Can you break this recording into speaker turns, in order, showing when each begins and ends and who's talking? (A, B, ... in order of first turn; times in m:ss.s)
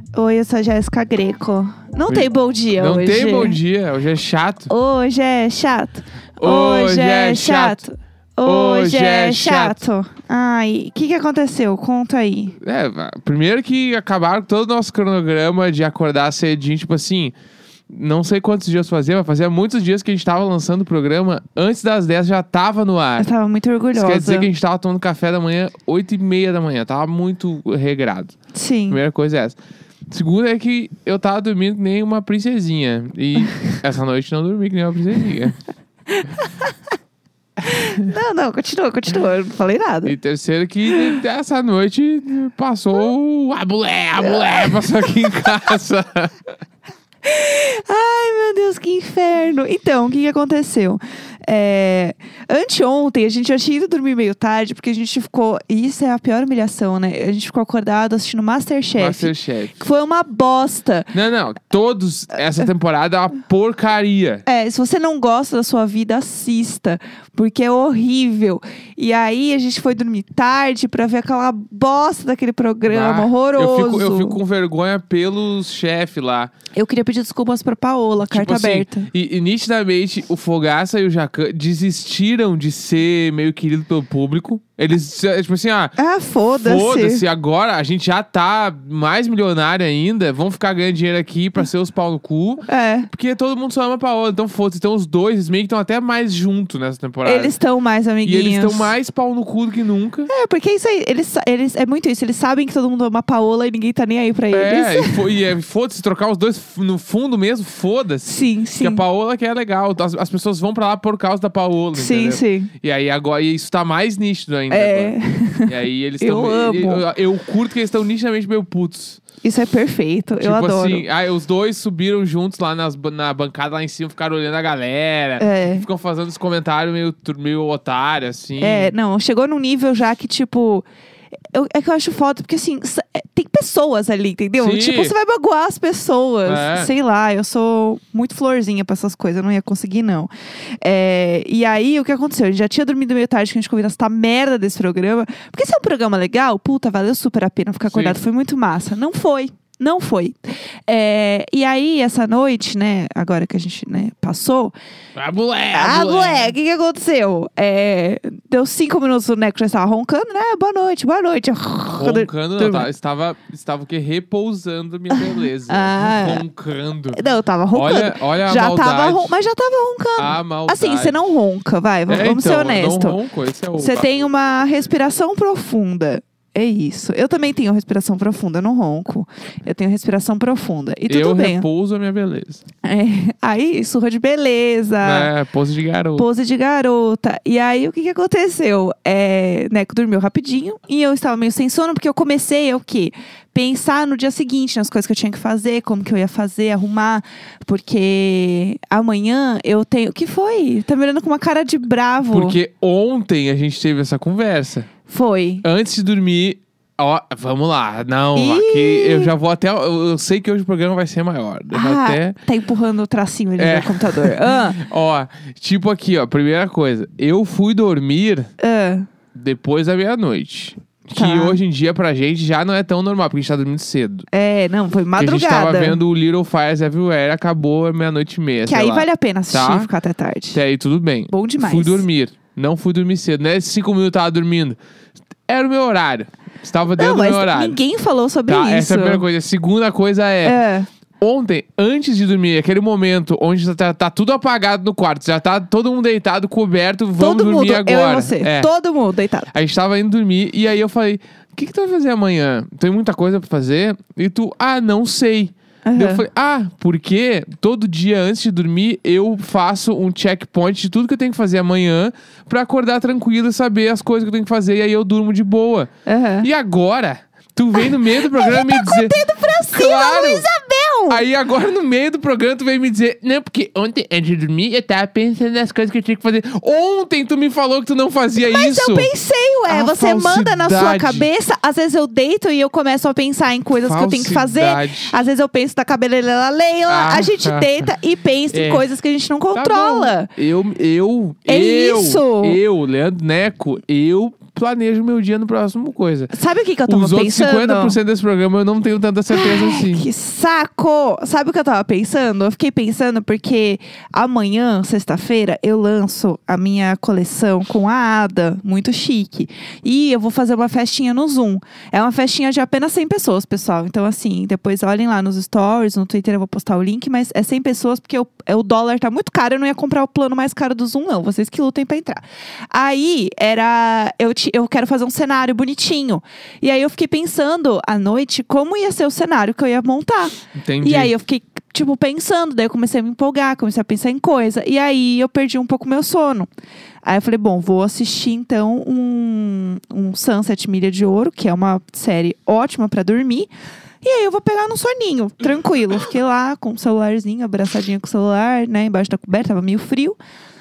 0:00.2-0:03.6 A
0:02.1-0:04.7 B
0:04.7-0:12.6 A
0:06.4-0:07.8 B
0:08.4-0:09.8 B
0:12.6-0:17.3 B
0:17.9-0:23.3 B
0:23.2-0:24.5 A
0:24.0-0:28.4 B
0:28.5-0:29.0 A
0:28.9-0:29.6 B
0:30.1-0:35.6 B
0:36.2-0:36.7 A
0:37.6-0:40.1 A
0:40.0-0:46.4 B
0:44.5-0:44.8 A
0:47.2-1:01.1 A
0:59.0-0:59.8 B
1:01.1-1:04.4 B
1:04.5-1:14.4 A
1:12.9-1:16.5 B
1:16.7-1:19.1 A
1:18.3-1:26.0 B
1:26.0-1:27.2 A
1:26.6-1:37.6 B
1:32.7-1:33.1 A
1:37.2-1:38.9 A
1:38.2-1:40.3 B
1:40.3-1:45.2 A
1:44.5-1:55.2 B
1:48.3-1:49.0 A
1:52.0-1:52.7 A
1:54.7-1:57.0 A
1:55.7-1:59.2 B
1:59.4-2:01.0 A
2:00.4-2:08.9 B
2:05.4-2:05.8 A
2:08.6-2:10.8 A
2:11.5-2:34.7 A
2:14.6-2:15.2 B
2:16.4-2:16.9 B
2:27.9-2:28.2 B
2:35.2-2:36.6 B
2:35.7-2:42.9 A
2:41.9-2:47.2 B
2:45.1-2:46.4 A
2:47.1-2:53.2 A
2:47.7-2:49.3 B
2:50.2-2:51.2 B
2:52.1-2:54.1 B
2:53.8-3:01.6 A
3:01.1-3:02.6 B
3:02.8-3:05.3 A
3:05.0-3:06.3 B
3:06.2-3:22.6 A
3:22.3-3:24.9 B
3:25.1-3:25.6 A
3:25.6-3:32.4 B
3:28.4-3:29.3 A
3:31.7-3:34.8 A
3:33.6-3:38.5 B
3:38.6-3:39.1 A
3:39.3-3:44.3 B
3:41.2-3:41.6 A
3:44.3-3:46.0 A
3:45.2-3:49.9 B
3:48.7-3:50.6 A
3:50.5-3:54.8 B
3:51.3-3:52.1 A
3:55.5-3:57.8 B
3:57.0-3:59.2 A
3:58.5-4:00.6 B
4:00.4-4:00.9 A
4:01.2-4:08.7 B
4:07.2-4:09.5 A
4:09.5-4:25.9 B
4:15.8-4:16.2 A
4:26.1-4:26.5 A
4:26.4-4:30.5 B
4:27.8-4:31.2 A
4:31.1-4:39.1 B
4:38.4-4:50.3 A
4:39.7-4:41.3 B
4:43.8-4:45.2 B
4:46.9-4:47.8 B
4:48.5-4:48.8 B
4:49.6-4:56.3 B
4:51.5-4:52.6 A
4:56.3-4:58.0 A
4:56.9-5:00.1 B
4:59.3-5:36.5 A
5:30.6-5:31.1 B
5:37.0-5:43.5 A
5:44.0-5:50.2 A